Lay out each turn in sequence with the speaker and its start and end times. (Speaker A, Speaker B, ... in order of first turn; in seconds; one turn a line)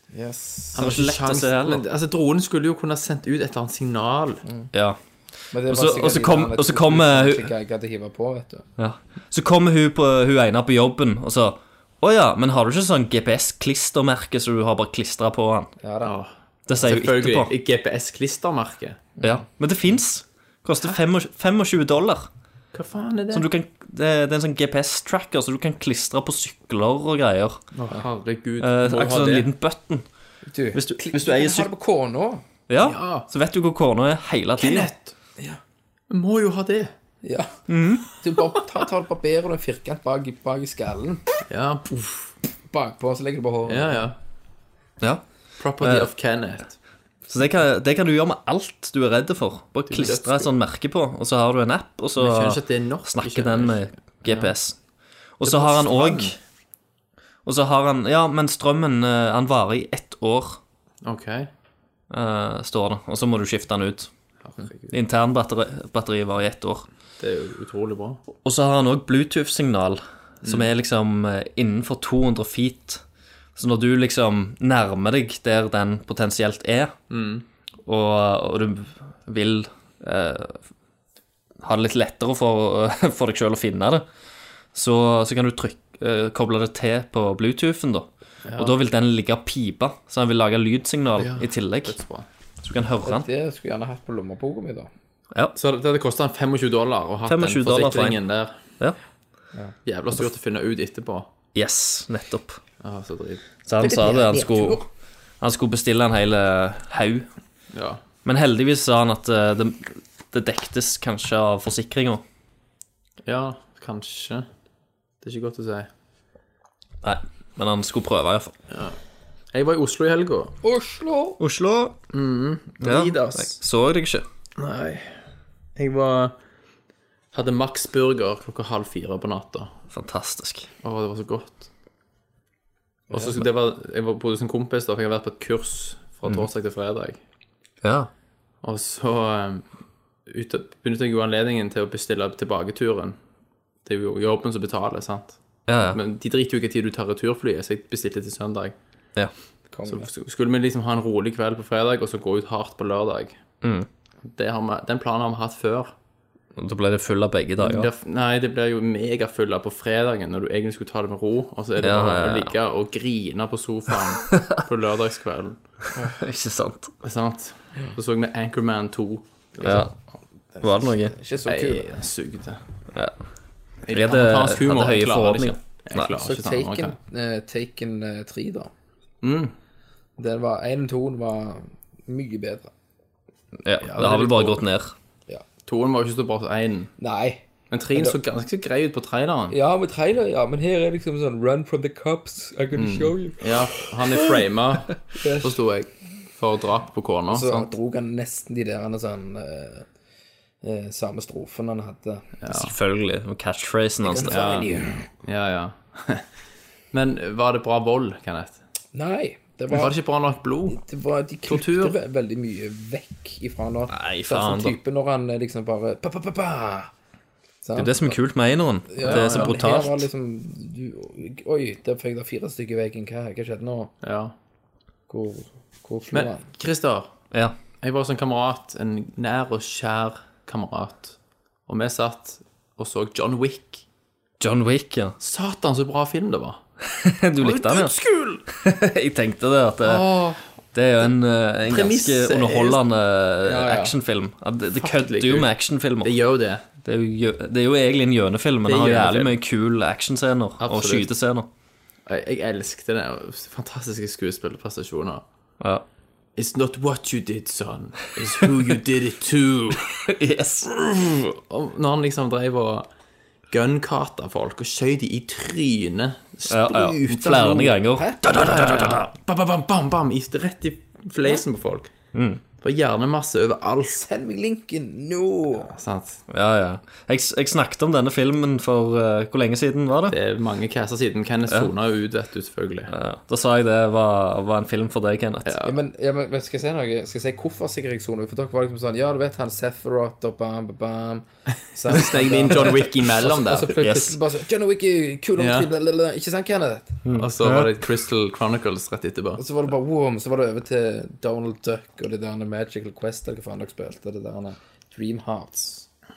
Speaker A: 0.1-0.8
Speaker B: 0.7-4.4
Speaker C: 0.8-1.8
Speaker C: 4.7-5.0
Speaker A: 5.5-8.6
Speaker C: 5.7-7.5
Speaker C: 8.8-15.7
Speaker A: 15.8-16.1
Speaker B: 16.0-19.1
Speaker C: 16.7-17.5
Speaker C: 19.2-22.3
Speaker B: 22.7-23.5
Speaker C: 23.3-27.6
Speaker B: 27.7-29.5
Speaker C: 28.6-30.1
Speaker A: 30.4-32.4
Speaker C: 30.7-31.7
Speaker C: 32.7-34.9
Speaker B: 32.8-33.3
Speaker B: 34.6-35.1
Speaker B: 36.1-36.9
Speaker A: 37.2-37.5
Speaker C: 37.7-38.1
Speaker A: 38.2-41.2
Speaker B: 41.5-42.3
Speaker A: 42.7-44.1
Speaker B: 43.7-44.1
Speaker B: 45.6-46.8
Speaker C: 45.8-46.1
Speaker C: 47.3-54.8
Speaker B: 49.9-50.5
Speaker B: 52.2-54.5
Speaker C: 55.4-56.4
Speaker B: 55.4-56.3
Speaker C: 57.4-60.6
Speaker B: 61.0-61.5
Speaker C: 62.1-64.1
Speaker B: 64.4-65.0
Speaker C: 64.9-66.8
Speaker B: 67.2-68.2
Speaker C: 68.4-73.0
Speaker B: 70.4-70.7
Speaker C: 73.5-77.0
Speaker B: 77.1-77.4
Speaker C: 77.8-80.6
Speaker C: 81.6-84.0
Speaker C: 84.7-92.0
Speaker B: 88.5-88.7
Speaker B: 91.2-92.3
Speaker C: 92.6-93.3
Speaker A: 93.0-94.9
Speaker B: 95.5-98.5
Speaker C: 97.2-98.2
Speaker B: 99.8-101.3
Speaker C: 101.5-102.6
Speaker B: 102.8-103.5
Speaker C: 103.7-104.8
Speaker A: 103.8-104.8
Speaker C: 105.4-107.3
Speaker B: 107.7-108.0
Speaker C: 108.2-112.2
Speaker B: 113.2-114.5
Speaker B: 115.2-115.9
Speaker C: 117.0-118.5
Speaker B: 118.7-119.0
Speaker B: 119.5-120.5
Speaker A: 120.6-121.4
Speaker C: 121.4-122.0
Speaker B: 122.1-123.6
Speaker C: 122.8-124.2
Speaker B: 124.6-125.2
Speaker B: 125.8-126.3
Speaker B: 127.3-129.7
Speaker C: 129.9-130.7
Speaker B: 130.8-131.7
Speaker A: 133.1-133.3
Speaker B: 133.1-137.2
Speaker C: 137.8-138.1
Speaker B: 138.6-139.7
Speaker B: 140.3-143.2
Speaker B: 143.8-148.7
Speaker C: 145.7-146.0
Speaker A: 149.7-150.1
Speaker B: 149.8-153.4
Speaker C: 153.6-153.9
Speaker B: 154.2-155.9
Speaker C: 156.6-157.9
Speaker B: 157.6-165.6
Speaker C: 161.8-162.5
Speaker C: 164.3-164.6
Speaker C: 166.0-166.9
Speaker B: 167.0-169.8
Speaker C: 169.6-169.9
Speaker A: 170.5-171.9
Speaker C: 170.6-171.1
Speaker B: 171.4-172.6
Speaker C: 172.9-173.2
Speaker B: 173.8-176.9
Speaker C: 173.9-176.1
Speaker A: 176.1-178.7
Speaker B: 179.2-179.5
Speaker A: 180.2-182.7
Speaker C: 183.6-184.9
Speaker B: 183.8-184.6
Speaker B: 185.7-186.9
Speaker A: 187.0-188.2
Speaker B: 187.7-189.6
Speaker A: 189.5-194.2
Speaker B: 192.8-197.7
Speaker A: 195.1-195.6
Speaker A: 197.3-199.8
Speaker A: 200.6-202.3
Speaker B: 202.4-202.7
Speaker C: 202.5-204.6
Speaker A: 204.0-205.0
Speaker B: 204.2-206.2
Speaker B: 206.9-208.6
Speaker A: 208.9-209.9
Speaker B: 209.7-210.8
Speaker A: 210.7-216.9
Speaker B: 211.5-211.9
Speaker C: 213.9-214.8
Speaker A: 217.6-218.2
Speaker C: 217.7-220.1
Speaker A: 218.9-223.9
Speaker B: 219.0-219.7
Speaker B: 224.0-224.3
Speaker A: 225.1-226.4
Speaker B: 226.1-227.1
Speaker B: 227.8-233.8
Speaker C: 234.4-235.2
Speaker B: 235.2-236.6
Speaker C: 236.8-240.1
Speaker B: 237.4-238.4
Speaker B: 239.8-240.4
Speaker C: 240.7-246.1
Speaker B: 241.7-242.8
Speaker B: 243.4-243.9
Speaker B: 244.8-246.6
Speaker C: 246.8-251.5
Speaker B: 248.6-249.3
Speaker B: 250.6-251.1
Speaker B: 252.1-255.2
Speaker B: 256.4-260.0
Speaker C: 260.0-261.2
Speaker B: 261.1-262.9
Speaker B: 263.5-267.6
Speaker C: 266.5-269.1
Speaker A: 267.2-269.0
Speaker B: 268.3-271.9
Speaker C: 272.1-272.4
Speaker B: 272.6-274.0
Speaker A: 274.0-275.8
Speaker B: 275.6-276.2
Speaker C: 276.3-280.1
Speaker B: 280.1-282.9
Speaker C: 282.9-285.5
Speaker B: 285.4-285.7
Speaker A: 285.6-297.0
Speaker B: 291.9-293.8
Speaker C: 293.8-294.2
Speaker B: 295.4-295.7
Speaker C: 297.0-297.8
Speaker B: 297.1-299.4
Speaker A: 299.4-305.9